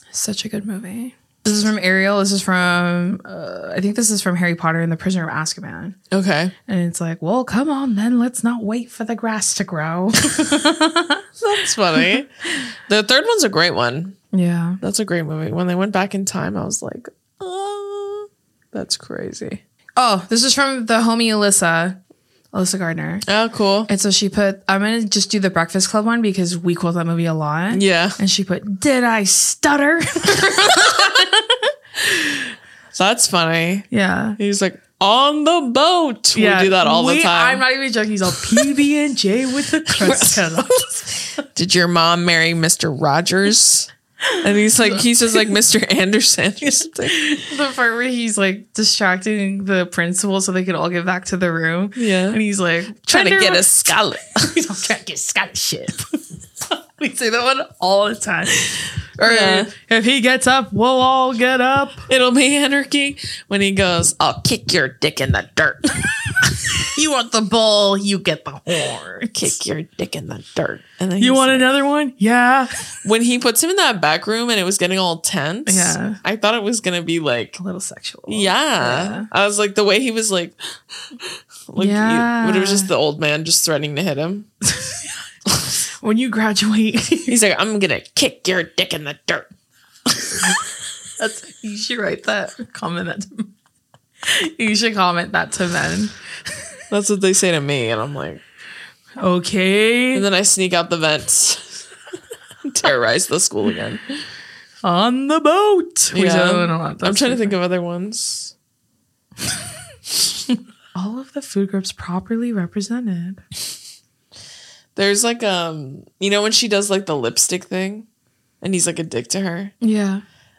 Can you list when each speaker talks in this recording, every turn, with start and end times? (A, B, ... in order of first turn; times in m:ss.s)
0:00.1-0:06.0 A
0:06.1-0:06.5 B
0:06.7-0:11.2 A
0:11.4-0:12.3 B
0:12.9-0:14.2 B
0:14.3-0:14.8 A
0:14.8-0:19.6 B
0:20.0-0:22.0 A
0:22.5-0:23.2 A
0:23.3-0:23.9 B
0:23.9-0:31.7 A
0:27.7-0:28.2 B
0:32.9-0:37.6 B
0:33.9-0:34.4 A
0:36.3-0:41.2 A
0:38.4-0:38.6 B
0:39.9-0:40.5 B
0:41.4-0:43.9 B
0:44.3-0:45.4 A
0:44.4-0:47.2 B
0:46.6-0:53.6 A
0:52.0-0:52.4 B
0:53.1-0:54.6 B
0:54.4-0:56.1 A
0:56.7-1:02.0 A
0:58.6-0:59.7 B
1:02.1-1:06.4 B
1:06.7-1:09.5 A
1:09.3-1:11.7 B
1:11.2-1:12.9 A
1:13.0-1:17.6 B
1:15.6-1:16.2 A
1:17.6-1:19.3 A
1:18.3-1:20.6 B
1:21.7-1:24.5 B
1:21.8-1:22.9 A
1:24.7-1:25.0 A
1:26.0-1:27.3 A
1:27.3-1:29.5 B
1:30.2-1:30.5 B
1:31.2-1:33.5 A
1:34.2-1:36.1 A
1:36.9-1:38.4 B
1:39.2-1:40.2 A
1:40.1-1:41.8 B
1:42.6-1:44.0 B
1:44.8-1:47.5 A
1:46.1-1:48.5 B
1:50.9-1:53.4 A
1:55.0-1:58.0 B
1:58.6-1:59.7 B
1:59.8-2:00.2 A